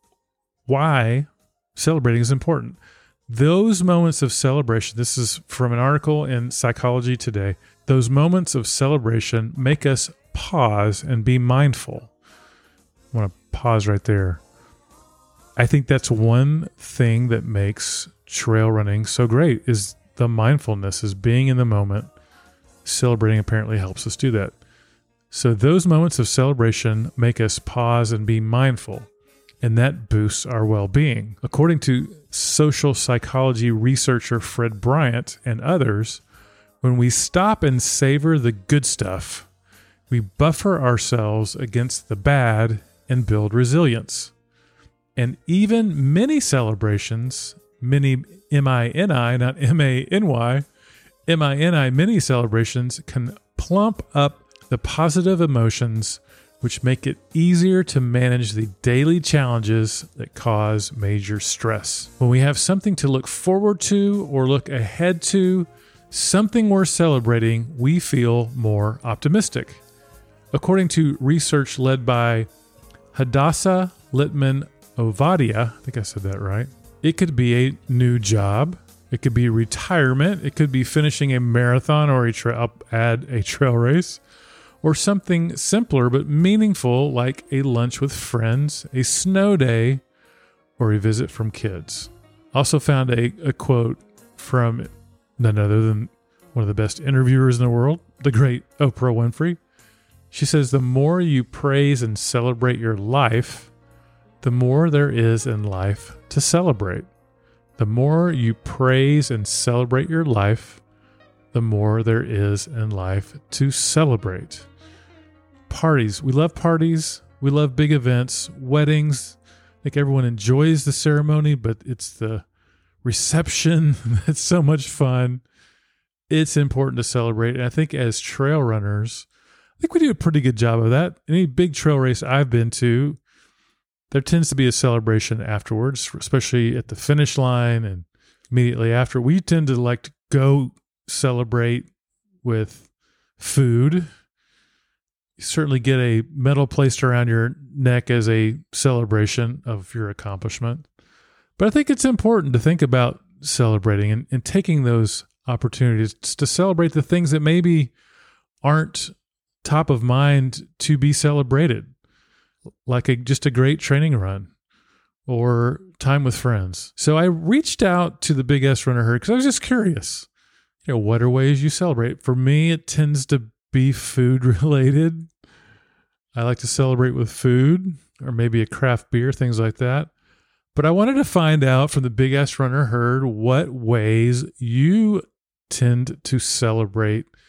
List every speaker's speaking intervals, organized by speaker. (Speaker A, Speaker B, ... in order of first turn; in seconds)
Speaker A: 0.7-12.1, 13.1-14.4, 15.6-22.1, 22.8-24.6, 25.3-29.1, 29.6-36.2, 36.8-39.5, 40.1-44.3, 45.1-50.6, 51.3-69.8, 70.5-72.5, 73.1-84.2, 84.8-90.0, 90.8-99.6, 100.3-103.7, 104.4-107.1, 107.8-110.8, 111.5-114.7, 115.7-122.4, 123.0-125.4, 126.3-129.3, 129.8-133.2, 134.1-141.9, 142.4-142.9, 143.4-144.1, 145.4-150.8, 151.6-157.9, 158.6-161.9, 162.8-164.5, 165.2-170.3, 170.8-175.3, 176.3-180.1, 180.7-187.3